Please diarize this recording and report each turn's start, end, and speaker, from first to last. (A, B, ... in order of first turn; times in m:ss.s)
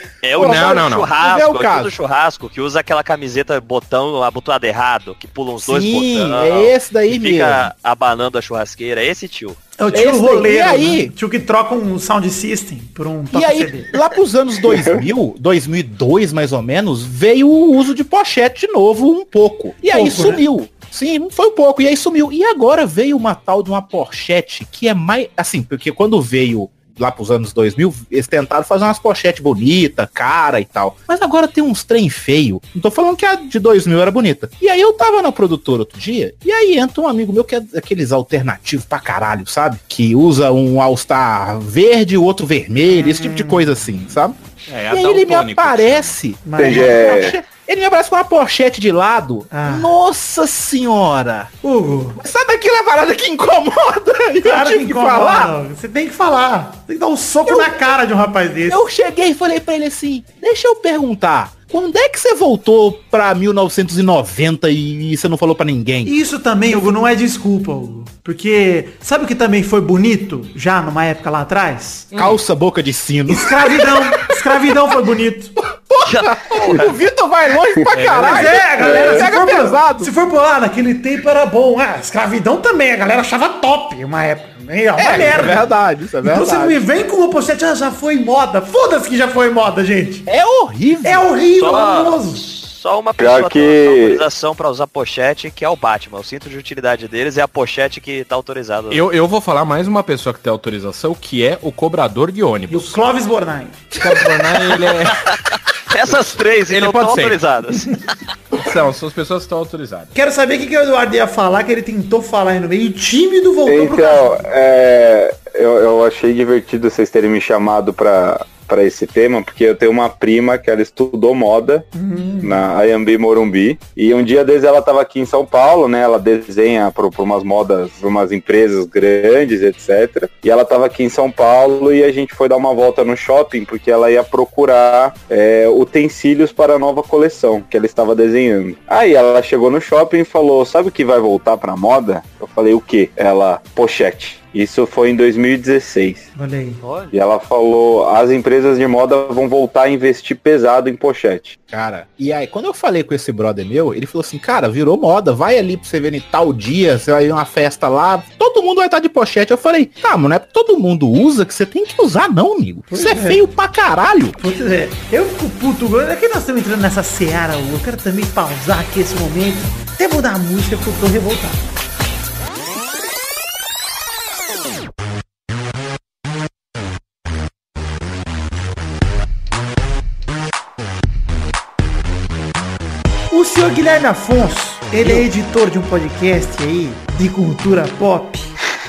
0:00.2-0:09.6 A
0:00.3-0:01.9 B
0:00.4-0:01.1 C
0:05.6-0:07.7 B
0:09.8-0:13.9 D
0:09.9-0:11.1 B
0:13.3-0:44.4 B
0:19.9-0:20.4 D
0:42.9-0:43.8 D
0:44.7-0:46.1 C
0:44.9-0:51.5 B
0:46.4-0:47.3 D
0:46.6-0:47.4 E
0:49.5-0:49.9 D
0:51.6-0:52.2 D
0:52.2-0:55.5 B
0:54.4-0:58.8 D
0:57.4-0:57.8 B
0:58.7-1:06.1 B
1:06.0-1:12.1 D
1:12.1-1:12.4 C
1:12.1-1:14.4 B
1:13.3-1:15.5 D
1:15.8-1:20.1 B
1:16.0-1:16.9 A
1:17.9-1:18.7 C
1:18.3-1:25.6 D
1:18.9-1:19.2 E
1:25.0-1:26.8 B
1:26.2-1:30.3 D
1:30.3-1:31.3 B
1:31.0-1:32.4 D
1:31.5-1:39.0 A
1:33.2-1:34.2 E
1:38.9-1:43.0 C
1:42.7-1:44.0 D
1:43.9-1:45.3 C
1:45.1-1:48.2 A
1:46.1-1:47.4 C
1:48.5-1:50.1 C
1:50.1-1:54.3 D
1:53.6-2:01.9 E
2:01.9-2:02.6 D
2:02.4-2:26.2 E
2:26.4-2:26.8 D
2:26.8-2:27.1 A
2:27.1-2:31.6 E
2:31.7-2:44.4 B
2:42.9-2:43.4 D
2:44.4-2:51.6 D
3:03.3-3:08.5 D